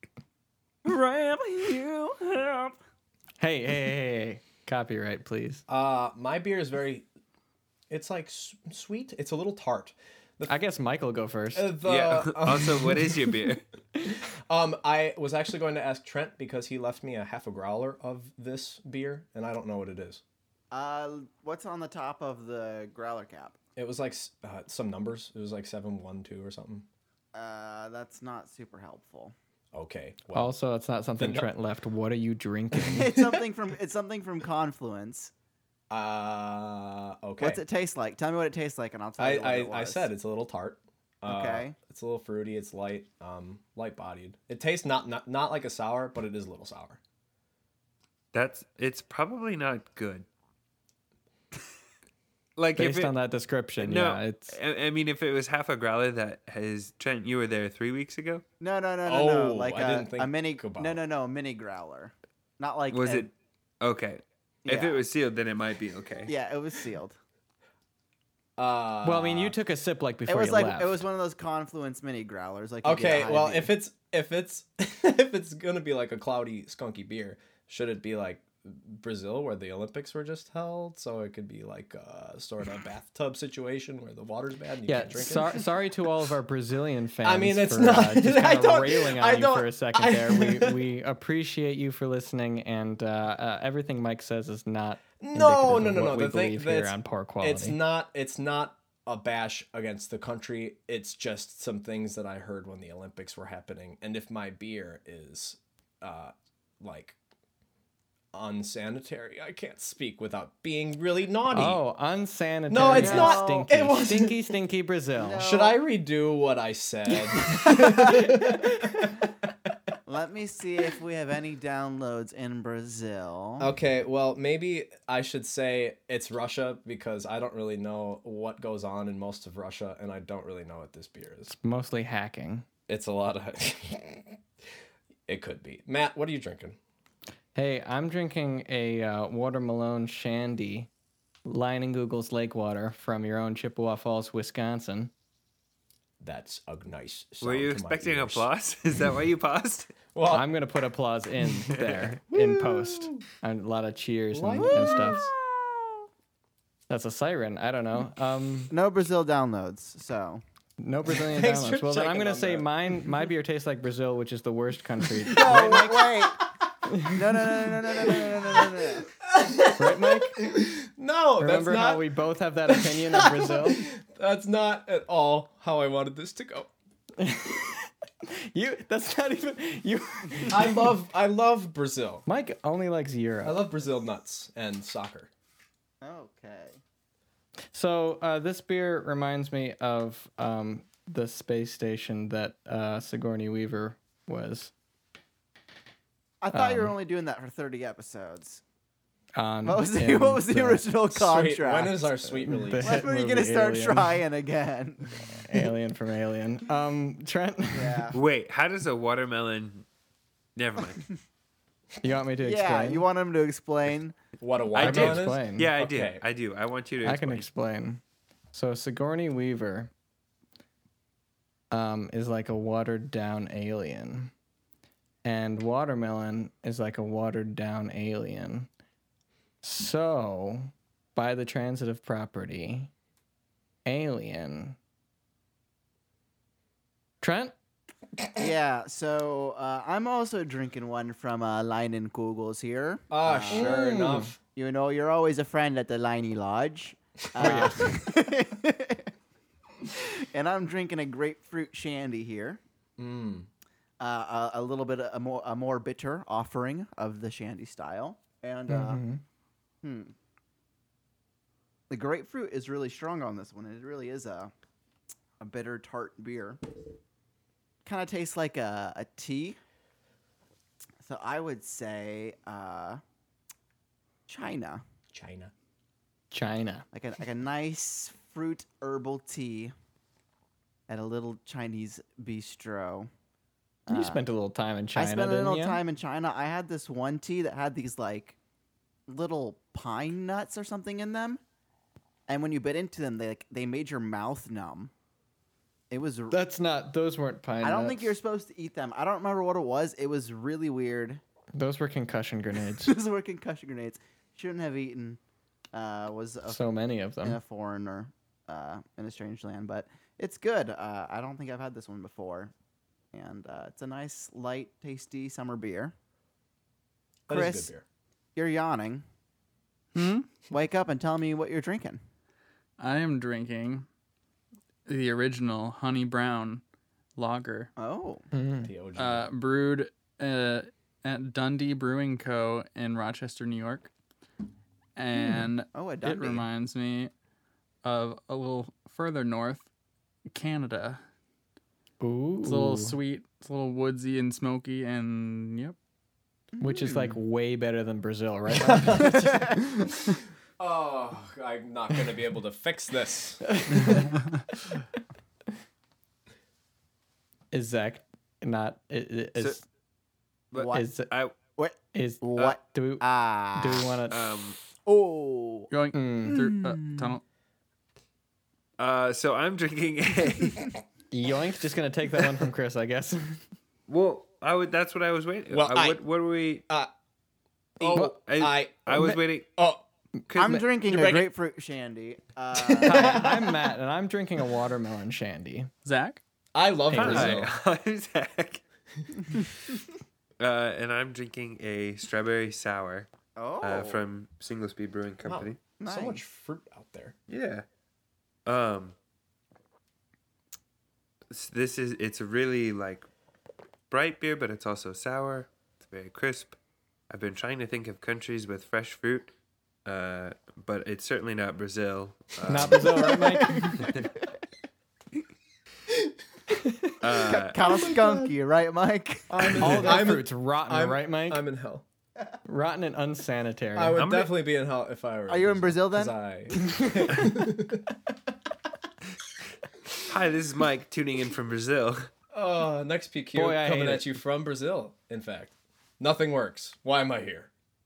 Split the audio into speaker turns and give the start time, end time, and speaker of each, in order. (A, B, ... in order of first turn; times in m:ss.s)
0:00.8-0:02.8 A
0:03.4-0:05.6 B
0:05.7-0:07.1 C
0:07.9-0:10.5 C
0:10.5-0:11.7 B
0:11.5-0:13.2 C
0:11.8-0:13.6 D
0:14.1-0:20.2 C
0:20.7-0:23.6 A
0:23.8-0:26.9 C
0:27.3-0:29.3 A
0:29.7-0:30.5 C
0:30.3-0:33.1 B
0:31.2-0:31.5 C
0:32.8-0:35.3 A
0:33.0-0:33.4 C
0:35.9-0:37.6 C
0:37.4-0:40.1 A
0:39.2-0:47.0 C
0:41.2-0:41.7 A
0:48.3-0:50.2 D
0:52.6-0:53.2 D
0:52.8-0:54.5 B
0:53.8-0:58.4 D
0:58.6-1:03.3 A
0:59.0-1:01.0 C
1:02.9-1:06.3 D
1:04.6-1:05.0 A
1:06.2-1:07.2 A
1:08.6-1:09.6 C
1:09.0-1:11.0 B
1:10.3-1:13.7 A
1:12.8-1:25.6 C
1:24.8-1:37.8 B
1:27.2-1:30.8 C
1:35.2-1:47.2 C
1:48.3-1:51.8 C
1:51.5-1:55.5 B
1:52.7-1:54.5 C
1:52.9-1:53.7 A
1:55.1-1:55.8 A
1:55.4-1:59.1 C
1:57.5-1:58.2 A
2:00.0-2:03.7 A
2:03.6-2:11.5 C
2:11.5-2:12.6 B
2:12.9-2:14.4 C
2:15.3-2:16.8 C
2:17.5-2:20.9 B
2:21.4-2:25.1 B
2:26.2-2:28.5 C
2:27.4-2:30.0 D
2:30.1-2:30.5 C
2:30.2-2:35.3 B
2:31.6-2:32.1 D
2:32.3-2:33.2 C
2:34.3-2:35.3 C
2:34.6-2:36.1 A
2:36.9-2:38.7 B
2:38.7-2:40.4 A
2:40.8-2:46.1 B
2:41.1-2:42.7 C
2:45.3-2:46.4 A
2:46.9-2:47.2 B
2:47.1-2:49.1 A
2:49.2-2:52.0 C
2:49.8-2:50.5 B
2:51.4-2:53.9 B
2:52.7-2:56.7 C
2:57.2-3:00.9 B
3:00.5-3:02.3 C
3:02.3-3:03.6 B
3:03.4-3:05.3 C
3:06.0-3:06.8 A
3:07.7-3:14.7 B
3:16.4-3:18.6 A
3:16.5-3:16.9 B
3:19.4-3:20.8 B
3:19.6-3:22.1 A
3:21.1-3:23.0 C
3:22.4-3:24.2 B
3:22.8-3:25.3 A
3:25.2-3:28.0 B
3:27.7-3:28.2 A
3:28.1-3:29.8 D
3:30.6-3:31.1 D
3:32.0-3:33.0 B
3:32.4-3:34.1 A
3:34.4-3:36.2 C
3:34.7-3:37.5 D
3:34.8-3:35.7 B
3:37.0-3:38.0 B
3:38.5-3:39.9 B
3:41.7-3:44.3 B
3:45.2-3:48.7 B
3:49.6-3:52.9 B
3:53.8-3:54.8 B
3:57.2-3:57.5 B
3:58.4-4:03.8 A
4:03.1-4:04.4 C
4:03.5-4:04.3 B
4:04.5-4:09.1 A
4:07.4-4:07.9 B
4:09.9-4:12.6 A
4:13.0-4:13.5 C
4:14.0-4:19.0 A
4:18.7-4:19.2 B
4:19.8-4:20.2 A
4:21.9-4:24.5 A
4:25.4-4:26.6 A
4:27.8-4:29.6 A
4:31.0-4:33.0 A
4:34.3-4:34.8 A
4:35.1-4:35.5 C
4:36.3-4:36.8 B
4:36.9-4:39.7 A
4:40.9-4:43.1 A
4:43.8-4:44.2 A
4:43.9-4:45.8 B
4:44.9-4:48.4 A
4:49.1-4:51.4 A
4:52.3-4:54.9 A
4:55.9-4:56.4 A
4:56.3-4:58.1 B
4:57.6-5:01.2 A
5:01.5-5:02.9 B
5:02.7-5:05.2 A
5:05.7-5:06.6 A
5:06.4-5:07.4 B
5:07.2-5:12.5 A
5:13.1-5:15.9 A
5:17.3-5:17.8 C
5:17.3-5:17.7 A
5:18.3-5:19.0 A
5:19.9-5:20.3 E
5:20.5-5:22.0 A
5:22.8-5:23.8 E
5:24.8-5:26.6 E
5:27.2-5:27.7 E
5:27.8-5:28.3 A
5:28.3-5:28.7 B
5:28.6-5:29.3 C
5:29.0-5:33.9 E
5:35.0-5:37.1 E
5:35.2-5:35.5 B
5:35.7-5:36.5 A
5:37.8-5:39.7 E
5:40.3-5:41.0 E
5:42.0-5:42.9 B
5:42.4-5:45.8 E
5:46.6-5:47.1 A
5:46.6-5:50.0 B
5:48.6-5:49.1 C
5:49.2-5:49.6 A
5:50.6-5:54.0 C
5:53.5-5:54.6 B
5:53.9-5:54.4 E
5:57.5-5:59.6 B
6:00.5-6:01.3 D
6:00.5-6:00.8 A
6:00.7-6:01.1 B
6:01.6-6:03.9 A
6:01.9-6:04.2 B
6:04.1-6:04.6 D
6:04.8-6:05.7 A
6:05.7-6:07.2 E
6:05.9-6:06.4 B
6:06.3-6:07.2 A
6:08.8-6:10.8 D
6:11.1-6:13.4 B
6:13.9-6:16.6 D
6:15.5-6:16.0 C
6:17.8-6:19.8 C
6:17.8-6:19.5 D
6:20.3-6:20.6 D
6:20.3-6:23.4 A
6:20.9-6:21.3 C
6:22.6-6:23.5 C
6:22.8-6:25.7 B
6:25.8-6:26.2 E
6:26.5-6:27.5 C
6:26.9-6:27.4 B
6:26.9-6:28.6 D
6:29.2-6:29.7 D
6:30.4-6:33.1 D
6:33.4-6:34.0 A
6:33.6-6:35.6 D
6:35.2-6:37.2 C
6:35.8-6:36.2 A
6:37.3-6:37.6 D
6:38.4-6:38.9 D
6:41.3-6:43.1 D
6:43.9-6:46.6 D
6:47.1-6:49.3 D
6:49.8-6:54.0 D
6:52.5-6:54.0 B
6:53.1-6:53.9 A
6:57.0-6:57.6 D
6:57.1-7:00.0 A
6:57.6-6:58.3 C
6:59.3-7:01.8 C
6:59.6-7:01.4 B
7:02.4-7:04.0 B
7:03.7-7:07.9 C
7:04.0-7:04.3 D
7:05.3-7:06.1 A
7:10.0-7:12.1 D
7:12.3-7:17.5 C
7:13.3-7:14.2 B